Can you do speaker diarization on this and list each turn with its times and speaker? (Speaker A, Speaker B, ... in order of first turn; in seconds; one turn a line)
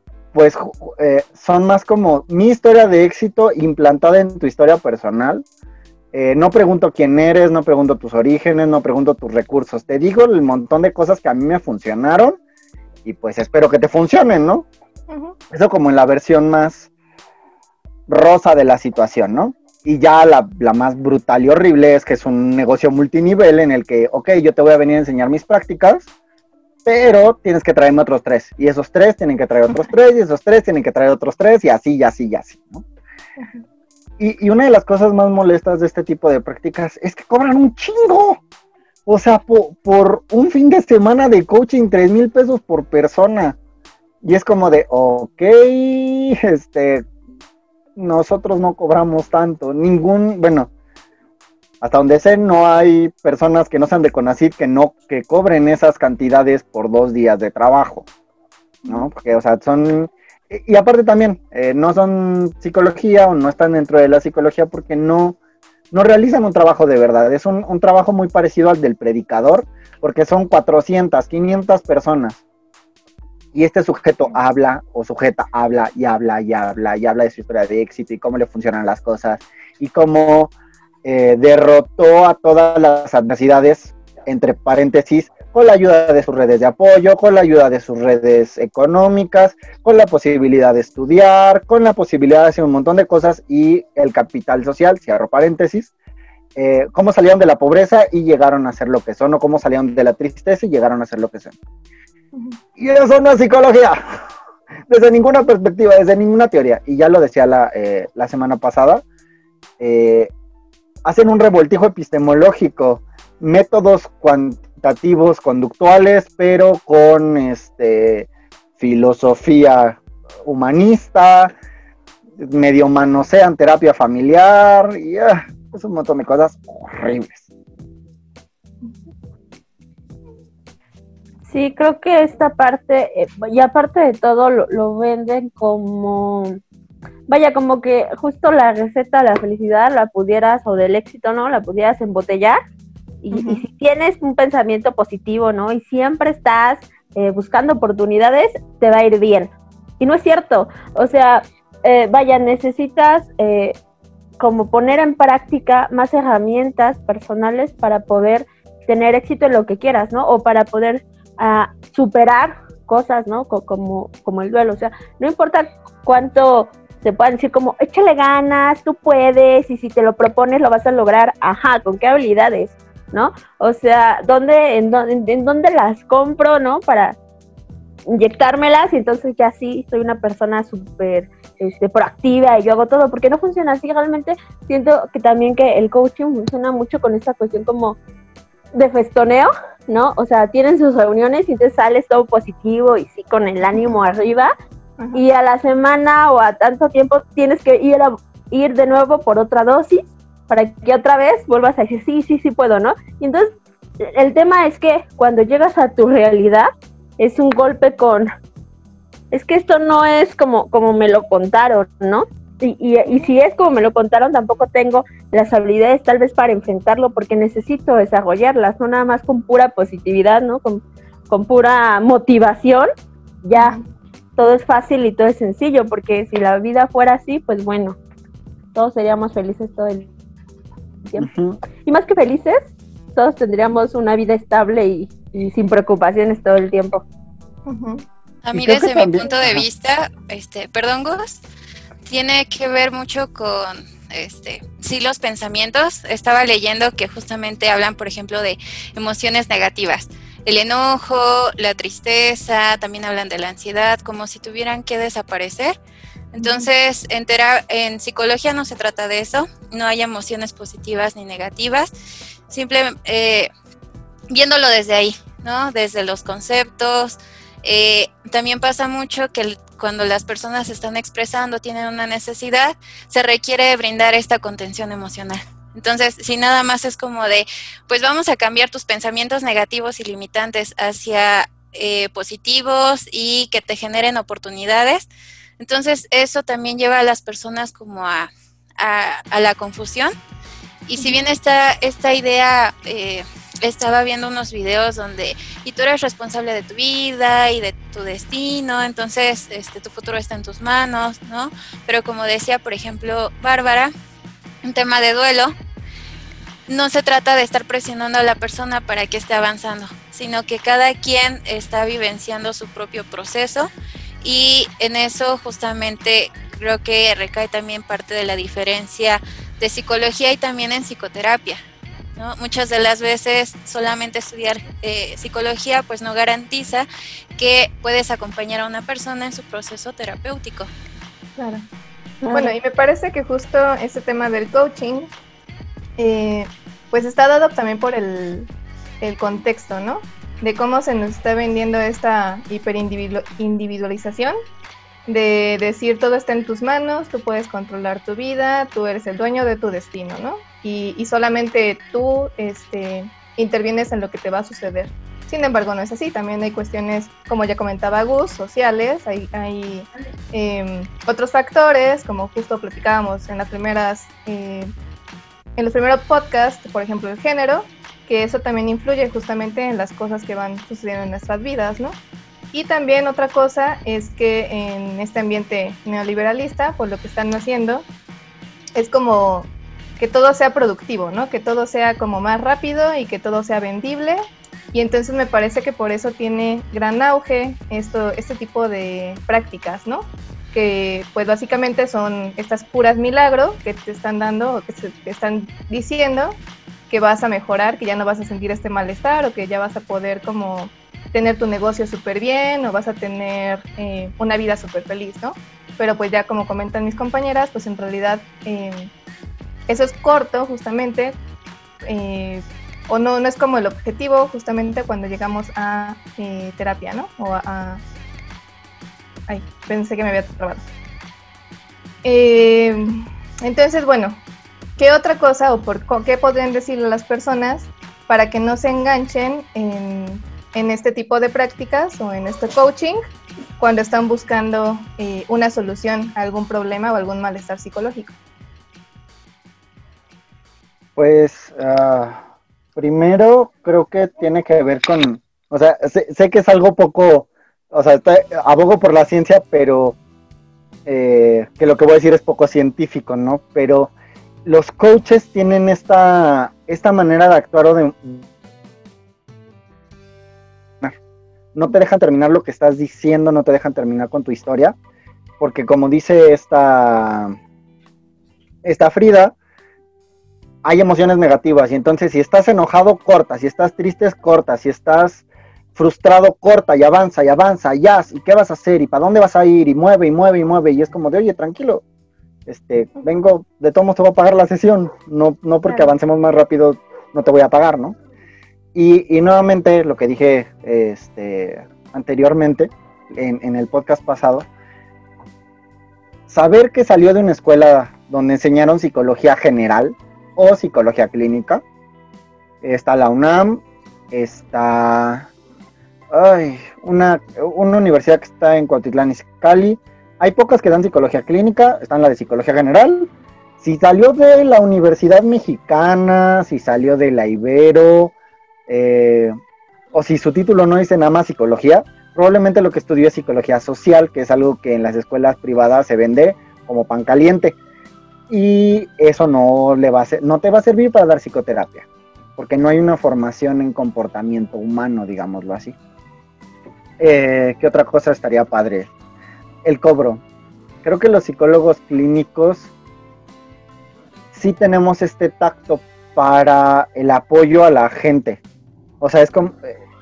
Speaker A: 0.3-5.4
Speaker A: 6.1-12.4
Speaker A: 13.0-14.7
Speaker B: 15.1-15.3
Speaker A: 15.5-16.9
Speaker A: 18.1-26.1
Speaker A: 26.8-32.8
Speaker A: 34.2-38.4
Speaker A: 39.0-43.6
Speaker A: 44.2-47.0
Speaker A: 48.0-50.7
Speaker A: 51.8-58.1
Speaker A: 58.9-65.4
Speaker A: 65.9-72.4
Speaker A: 73.5-80.5
Speaker A: 81.0-95.9
Speaker A: 96.5-101.5
Speaker B: 102.3-102.6
Speaker A: 102.8-104.3
Speaker A: 104.9-109.0
Speaker A: 109.8-110.3
Speaker A: 111.0-121.5
Speaker A: 122.4-127.5
Speaker C: 131.5-136.6
Speaker C: 137.3-142.6
Speaker C: 143.2-153.8
Speaker B: 143.3-143.6
Speaker C: 154.4-177.2
Speaker C: 178.1-188.0
Speaker C: 188.7-194.5
Speaker C: 195.1-208.3
Speaker C: 209.3-222.9
Speaker B: 213.0-213.3
Speaker C: 223.4-223.8
Speaker B: 223.5-223.8
Speaker C: 224.4-228.0
Speaker C: 228.7-230.1
Speaker A: 231.2-231.6
Speaker C: 231.8-232.6
Speaker C: 233.1-237.0
Speaker B: 237.7-238.0
Speaker D: 238.4-241.4
Speaker A: 238.5-239.6
Speaker D: 242.1-255.8
Speaker D: 256.3-261.9
Speaker B: 256.4-256.7
Speaker D: 262.5-263.5
Speaker D: 264.3-285.1
Speaker D: 285.6-290.1
Speaker D: 290.9-303.9
Speaker D: 304.6-305.5
Speaker D: 306.7-313.7
Speaker D: 314.2-321.6
Speaker D: 322.1-330.7
Speaker B: 331.4-331.6
Speaker C: 332.2-332.5
Speaker B: 332.3-335.1
Speaker B: 336.0-338.5
Speaker B: 339.0-344.3
Speaker B: 345.1-364.7
Speaker B: 365.6-372.0
Speaker B: 372.5-377.9
Speaker B: 378.8-384.2
Speaker B: 384.7-408.9
Speaker B: 409.7-411.1
Speaker B: 411.8-417.8
Speaker B: 419.3-420.7
Speaker B: 422.0-424.2
Speaker B: 424.8-433.0
Speaker B: 433.6-438.1
Speaker A: 440.9-442.2
Speaker A: 442.8-449.9
Speaker A: 450.9-453.9
Speaker A: 454.4-458.2
Speaker A: 461.5-464.7
Speaker A: 465.4-467.4
Speaker A: 468.6-469.3
Speaker A: 470.6-475.2
Speaker A: 475.7-481.8
Speaker A: 482.5-488.0
Speaker A: 488.7-494.4
Speaker A: 496.3-501.6
Speaker A: 502.6-505.3
Speaker A: 506.1-518.1
Speaker A: 518.7-519.4
Speaker A: 519.9-527.5
Speaker A: 528.3-531.9
Speaker A: 532.4-535.8
Speaker A: 537.0-538.9
Speaker A: 539.6-540.2
Speaker A: 540.8-542.7
Speaker A: 544.3-548.4
Speaker A: 549.0-549.8